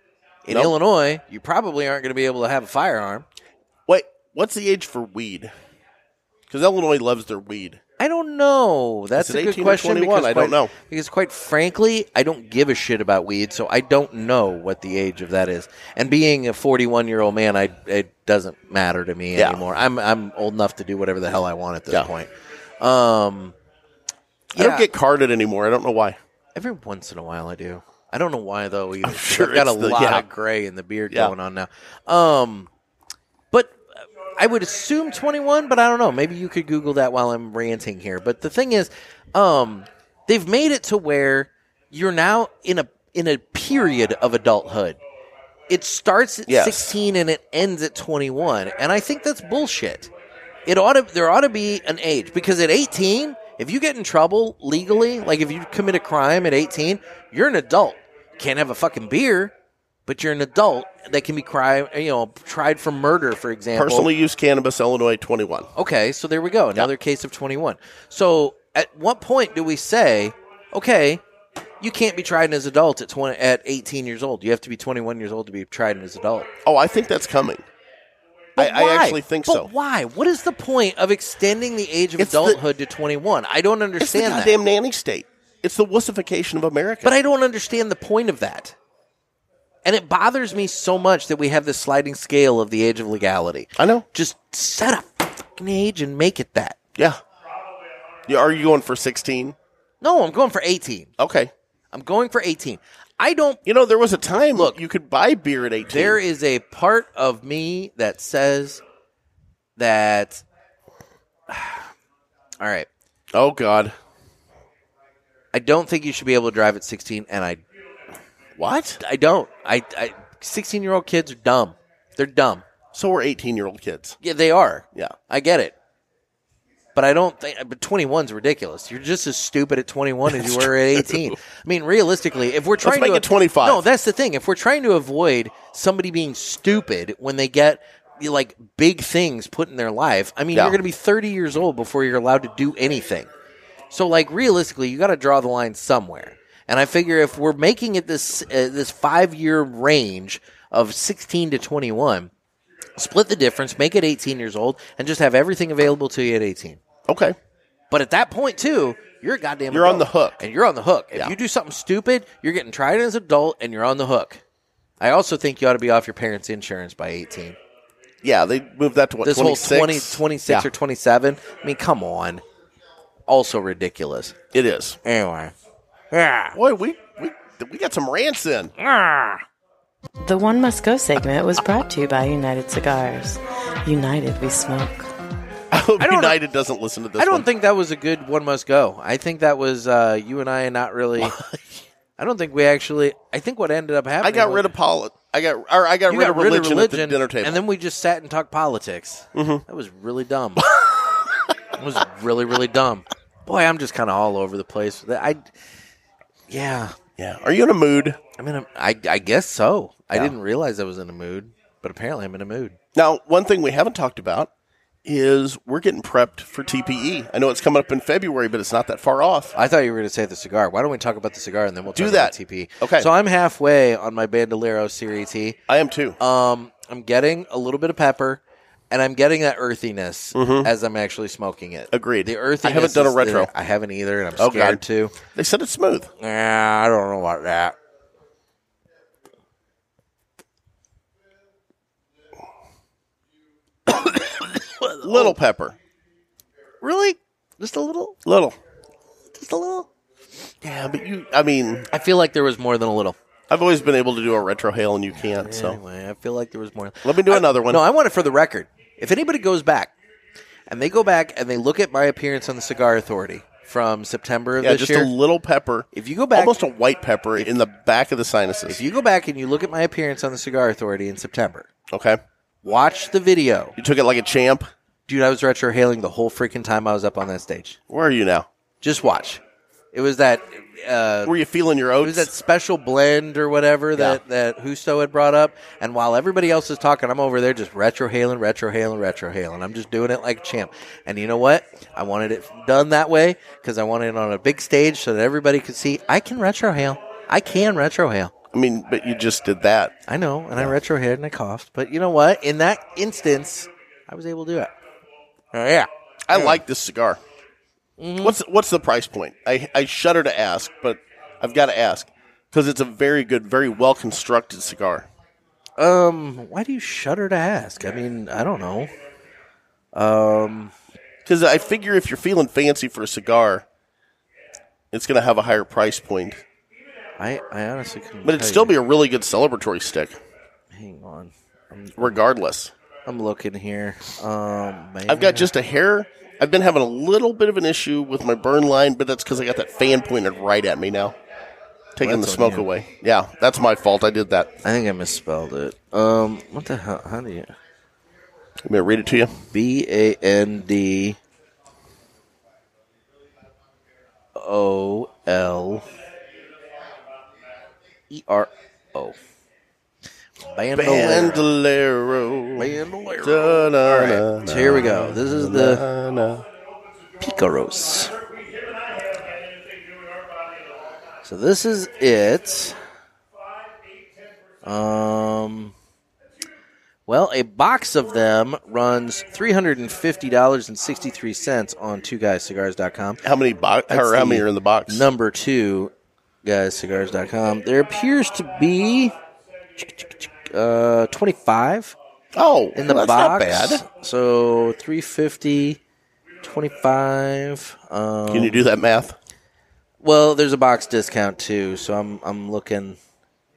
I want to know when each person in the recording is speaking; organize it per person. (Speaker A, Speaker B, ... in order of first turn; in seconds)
Speaker A: 0.5-3.2, 8.0-22.3, 22.8-23.5, 24.5-24.9, 26.6-32.7, 34.4-45.0, 45.7-50.1, 50.6-59.5, 60.1-64.1, 65.8-71.2, 71.8-76.5, 78.6-84.5, 87.0-88.7, 89.8-96.8, 100.0-101.1, 101.9-103.6, 105.9-108.8, 109.8-110.4, 111.5-111.9, 112.6-112.9, 115.5-117.6, 119.0-122.6, 124.2-125.7, 126.9-143.3, 143.9-152.3, 153.0-156.8, 157.9-164.4, 165.0-167.6, 169.2-172.4, 173.3-174.4, 175.0-175.5, 176.1-176.6, 178.8-179.4, 186.0-186.4, 187.2-191.4, 192.2-194.7, 196.1-200.8, 201.8-205.4, 206.5-206.9, 208.4-212.8, 219.6-225.6, 226.2-235.2, 236.2-237.7, 243.9-245.3, 246.8-248.2, 249.3-249.9, 251.9-253.2, 255.3-259.9, 260.7-265.1, 265.9-266.6, 268.7-271.7, 272.6-273.7, 275.1-277.8, 278.8-279.4, 279.9-281.4, 282.0-298.3, 300.1-304.7, 305.5-306.6, 308.0-308.4, 315.8-318.9, 319.9-320.7, 327.2-328.7, 330.7-332.1, 333.1-335.5, 342.0-342.7, 344.6-347.5, 349.5-351.2, 354.4-355.9, 358.1-359.2, 360.5-361.4, 362.6-365.8, 367.2-368.1, 371.2-372.8, 374.6-375.7, 377.1-383.2, 383.9-385.9, 386.4-389.1, 389.8-391.9, 392.8-395.8, 396.4-398.6, 400.0-403.0
Speaker B: 0.5-0.7, 3.9-5.5, 6.5-7.8, 9.2-10.7, 19.4-19.6, 24.5-26.2, 29.0-30.2, 46.5-46.9, 63.8-65.7, 76.6-77.6, 78.6-79.7, 82.2-82.6, 84.0-87.2, 93.8-94.0, 98.3-99.5, 101.2-101.5, 103.7-106.2, 113.3-113.9, 118.6-119.0, 122.9-124.2, 130.3-131.4, 132.8-133.8, 140.5-140.8, 157.1-157.4, 159.7-160.4, 168.2-170.7, 174.5-175.0, 176.5-178.7, 185.7-187.5, 191.2-191.8, 194.2-197.6, 199.3-199.6, 207.2-208.2, 212.9-214.5, 215.0-219.5, 221.9-223.1, 225.7-226.2, 230.3-230.7, 231.9-233.5, 234.4-234.8, 235.3-236.1, 245.0-245.8, 248.2-248.6, 250.6-251.9, 253.5-255.8, 257.0-257.8, 264.6-268.8, 271.9-272.2, 273.8-274.7, 277.9-278.5, 281.2-282.3, 283.9-284.2, 298.5-299.9, 306.3-307.2, 308.2-315.1, 321.2-323.6, 324.9-326.4, 328.2-330.2, 332.0-332.7, 335.1-341.1, 342.0-344.6, 348.6-349.4, 360.7-366.4, 383.2-385.1, 392.3-393.8, 398.3-399.1
Speaker C: 180.2-185.1